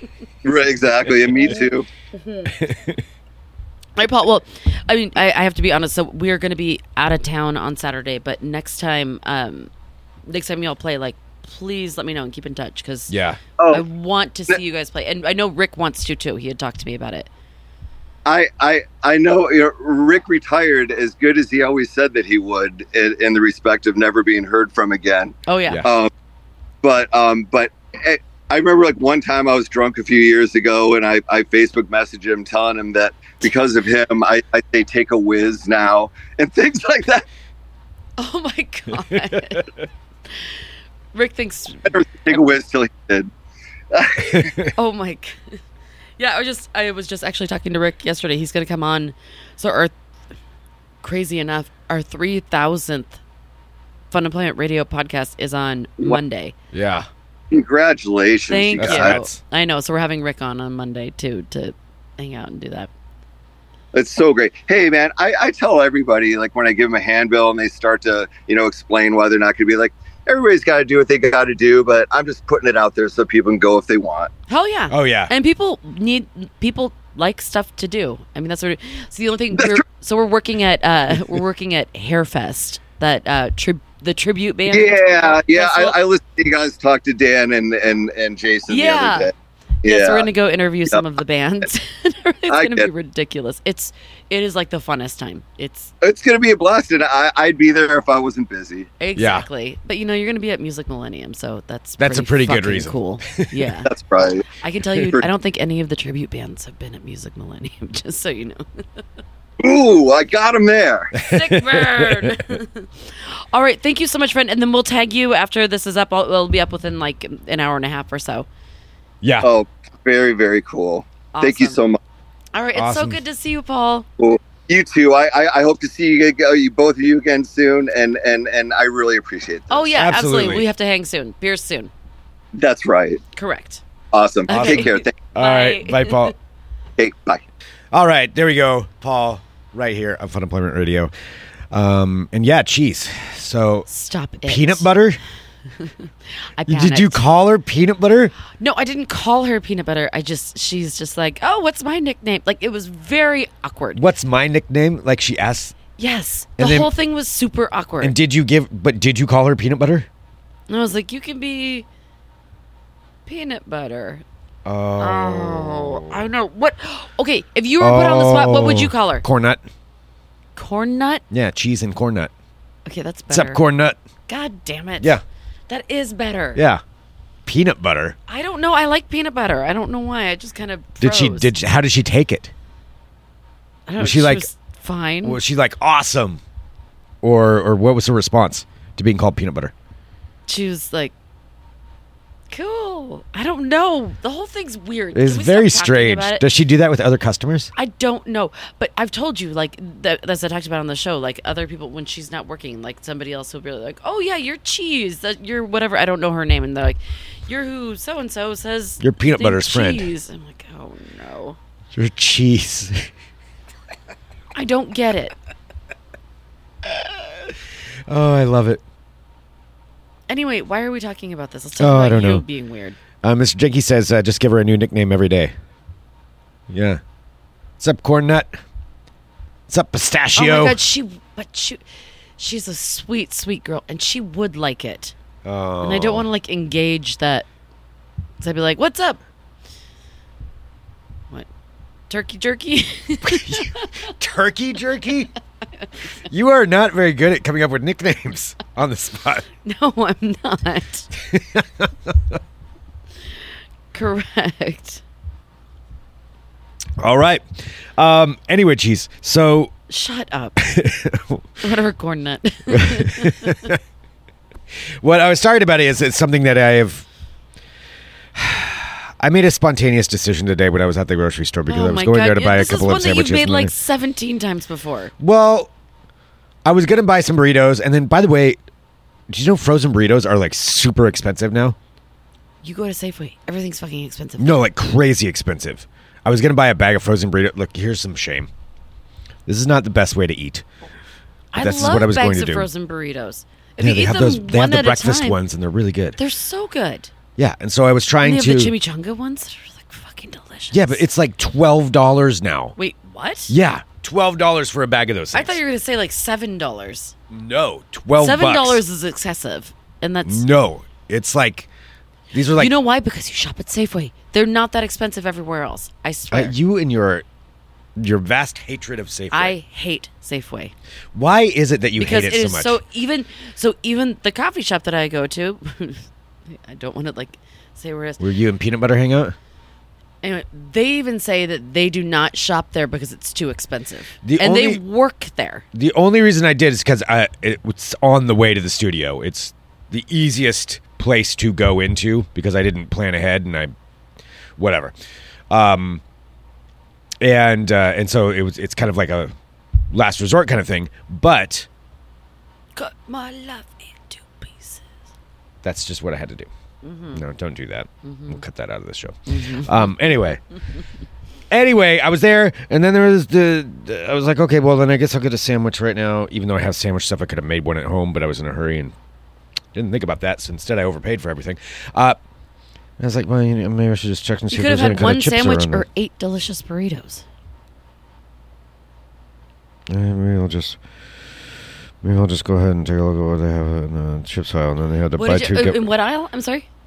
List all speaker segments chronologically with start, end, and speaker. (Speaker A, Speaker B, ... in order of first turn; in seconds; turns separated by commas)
Speaker A: 0.4-1.9, Speaker B: 1.1-1.5, Speaker C: 1.4-2.5, Speaker B: 2.5-3.0, Speaker C: 4.0-9.7, Speaker C: 10.3-13.1, Speaker B: 13.1-13.4, Speaker A: 13.6-13.8, Speaker C: 13.7-17.3, Speaker A: 18.2-26.1, Speaker C: 25.5-25.8, Speaker A: 26.8-37.2, Speaker C: 38.2-39.7, Speaker B: 39.3-39.6, Speaker C: 41.1-42.4, Speaker A: 41.9-43.3, Speaker A: 43.9-44.5, Speaker B: 44.2-44.7, Speaker C: 44.7-45.6, Speaker C: 46.2-49.9, Speaker C: 51.0-53.2, Speaker C: 54.1-56.5, Speaker B: 56.7-57.1, Speaker A: 57.5-59.1, Speaker C: 58.5-62.9, Speaker B: 58.8-59.4, Speaker A: 63.9-74.3, Speaker C: 74.5-86.0, Speaker B: 74.9-75.3, Speaker A: 84.7-89.3, Speaker C: 88.7-89.3, Speaker A: 89.8-90.3, Speaker C: 89.8-95.9, Speaker A: 92.5-92.9, Speaker A: 96.0-98.9, Speaker C: 99.0-103.9, Speaker B: 99.2-99.5, Speaker B: 102.0-103.5, Speaker A: 103.9-104.5, Speaker C: 104.5-109.0, Speaker A: 109.6-111.2, Speaker B: 111.2-112.4, Speaker C: 111.2-118.5, Speaker B: 119.2-119.5, Speaker A: 119.4-122.0, Speaker C: 121.3-121.8, Speaker C: 122.5-124.0, Speaker B: 122.7-123.2, Speaker A: 124.2-129.9, Speaker C: 129.7-131.9, Speaker B: 129.9-130.6, Speaker A: 132.6-133.2, Speaker C: 133.3-133.8, Speaker A: 134.1-135.2, Speaker C: 134.5-136.3, Speaker B: 134.5-136.3, Speaker A: 137.0-137.4, Speaker B: 137.9-141.1, Speaker B: 141.7-143.9, Speaker C: 143.9-144.9, Speaker B: 144.4-145.2, Speaker C: 145.8-147.2, Speaker B: 146.7-148.3, Speaker C: 148.5-154.0, Speaker B: 153.9-155.8, Speaker C: 156.0-158.2, Speaker B: 156.6-156.9, Speaker B: 158.0-160.1, Speaker C: 160.7-161.8, Speaker C: 163.2-164.2, Speaker B: 164.6-166.2, Speaker C: 165.0-169.2, Speaker B: 167.8-169.6, Speaker C: 170.6-171.2, Speaker B: 171.3-172.3, Speaker C: 172.8-173.6, Speaker B: 173.3-174.0, Speaker C: 174.3-175.2, Speaker C: 175.7-176.6, Speaker B: 176.5-176.8, Speaker B: 177.4-178.2, Speaker C: 178.3-181.5, Speaker B: 181.0-182.5, Speaker C: 183.9-185.4, Speaker B: 184.0-184.4, Speaker B: 185.2-186.4, Speaker B: 187.2-189.7, Speaker C: 190.5-191.1, Speaker C: 192.5-196.4, Speaker B: 195.1-197.7, Speaker C: 197.7-211.6, Speaker B: 209.0-210.1, Speaker B: 211.9-213.1, Speaker C: 214.5-215.3, Speaker B: 216.8-218.8, Speaker C: 220.3-223.0, Speaker B: 221.8-222.4, Speaker B: 223.2-225.5, Speaker B: 226.7-227.0, Speaker B: 227.8-228.5, Speaker B: 229.7-230.8, Speaker C: 230.3-231.8, Speaker C: 232.4-235.1, Speaker B: 235.4-236.2, Speaker C: 235.8-237.4, Speaker C: 238.4-239.2, Speaker C: 242.1-244.1, Speaker B: 243.2-245.3, Speaker B: 246.3-249.4, Speaker C: 249.6-251.1, Speaker B: 251.2-252.4, Speaker C: 253.9-255.0, Speaker B: 257.0-259.7, Speaker C: 259.9-260.7, Speaker B: 260.6-261.5, Speaker C: 261.6-263.7, Speaker B: 262.7-263.8, Speaker B: 265.0-267.1, Speaker B: 268.3-273.7, Speaker C: 271.6-275.1, Speaker B: 275.2-275.7, Speaker B: 276.6-278.6, Speaker B: 279.3-281.8, Speaker C: 282.6-284.6, Speaker B: 284.4-288.5, Speaker B: 289.4-290.6, Speaker C: 291.5-295.4, Speaker B: 291.6-292.7, Speaker B: 293.8-296.2, Speaker C: 296.1-297.1, Speaker B: 297.4-298.7, Speaker C: 298.2-301.0, Speaker B: 300.7-302.8, Speaker C: 302.8-303.5, Speaker B: 303.5-305.6, Speaker C: 305.3-307.1, Speaker B: 307.3-308.8, Speaker C: 308.1-310.4, Speaker B: 310.2-311.7, Speaker B: 312.3-312.7, Speaker C: 312.5-316.5, Speaker B: 316.3-317.2, Speaker B: 318.0-319.5, Speaker C: 319.3-320.7, Speaker B: 321.1-322.8, Speaker C: 322.0-328.2, Speaker B: 328.2-329.4, Speaker C: 330.2-335.6, Speaker B: 334.2-334.8, Speaker B: 335.7-343.7, Speaker B: 344.6-344.9, Speaker B: 345.5-346.0, Speaker B: 347.2-349.3, Speaker B: 349.9-351.7, Speaker C: 352.8-354.9, Speaker B: 355.6-356.5, Speaker C: 356.8-357.2, Speaker B: 357.1-360.4, Speaker C: 358.0-358.4, Speaker C: 359.3-359.9, Speaker B: 361.5-368.9, Speaker B: 369.7-372.2, Speaker B: 373.0-375.9, Speaker C: 374.5-377.2, Speaker B: 379.9-380.8, Speaker B: 382.0-385.9, Speaker C: 385.1-386.7